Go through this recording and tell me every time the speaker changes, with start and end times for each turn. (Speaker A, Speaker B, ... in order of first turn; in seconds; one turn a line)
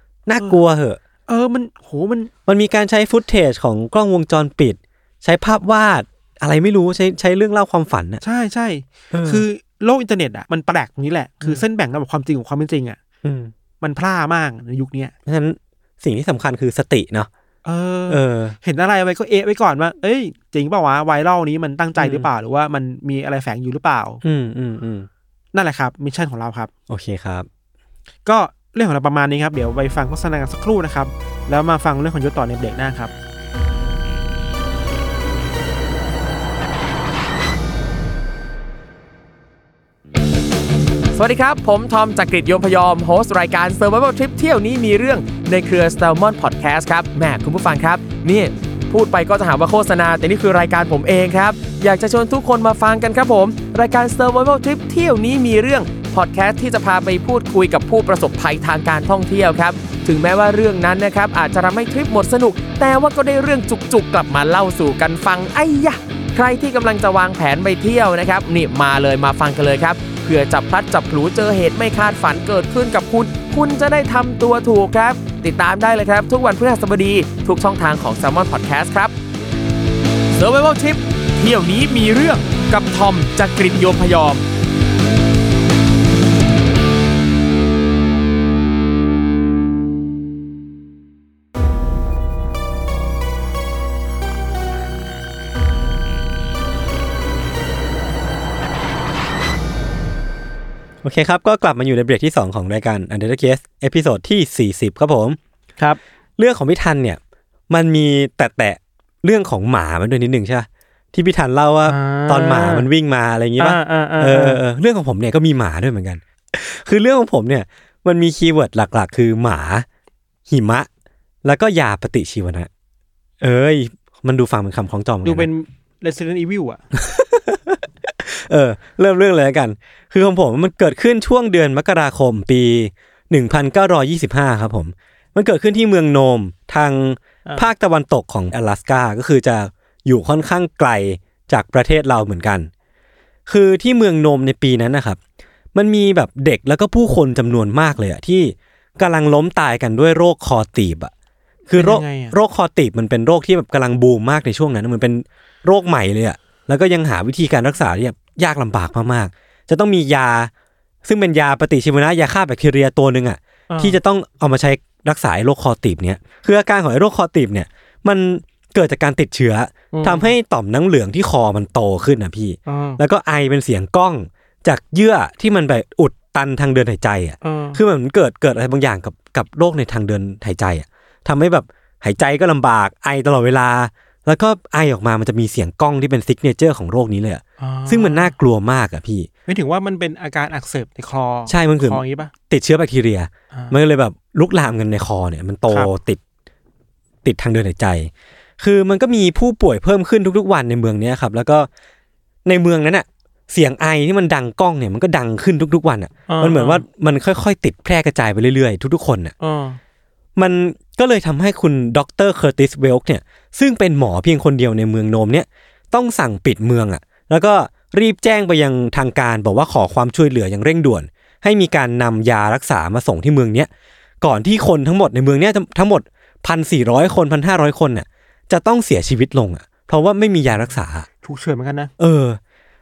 Speaker A: 0.3-1.0
Speaker B: 1.3-2.3
Speaker A: 2.5-8.2
Speaker B: 8.2-13.0
Speaker A: 9.1-9.5
Speaker A: 13.2-13.5
Speaker B: 13.8-15.1
Speaker A: 15.3-17.3
Speaker B: 17.6-24.2
Speaker A: 18.1-18.6
Speaker A: 22.0-22.3
Speaker A: 24.2-25.1
Speaker B: 25.5-26.7
Speaker A: 26.9-27.5
Speaker B: 28.2-33.1
Speaker C: 41.1-79.1
Speaker C: 80.4-84.5
Speaker A: 101.0-105.4
Speaker A: 106.4-107.2
Speaker A: 107.7-119.9
Speaker B: 111.9-112.9
Speaker B: 113.6-114.6
Speaker A: 120.5-120.9
Speaker A: 121.4-122.7
Speaker A: 123.4-125.5
Speaker B: 125.2-126.8
Speaker A: 126.9-142.7
Speaker A: 143.5-145.2
Speaker A: 145.8-151.1
Speaker A: 151.7-160.5
Speaker B: 151.8-152.4
Speaker A: 161.0-189.3
Speaker B: 163.7-164.0
Speaker B: 169.9-170.3
Speaker B: 172.7-173.0
Speaker B: 177.4-177.8
Speaker B: 187.6-188.3
Speaker B: 189.5-192.3
Speaker A: 191.5-196.2
Speaker A: 197.2-201.7
Speaker A: 202.4-209.3
Speaker B: 206.3-206.8
Speaker B: 209.4-209.8
Speaker A: 210.4-223.7
Speaker A: 224.2-231.1
Speaker B: 230.5-231.9
Speaker A: 232.0-232.4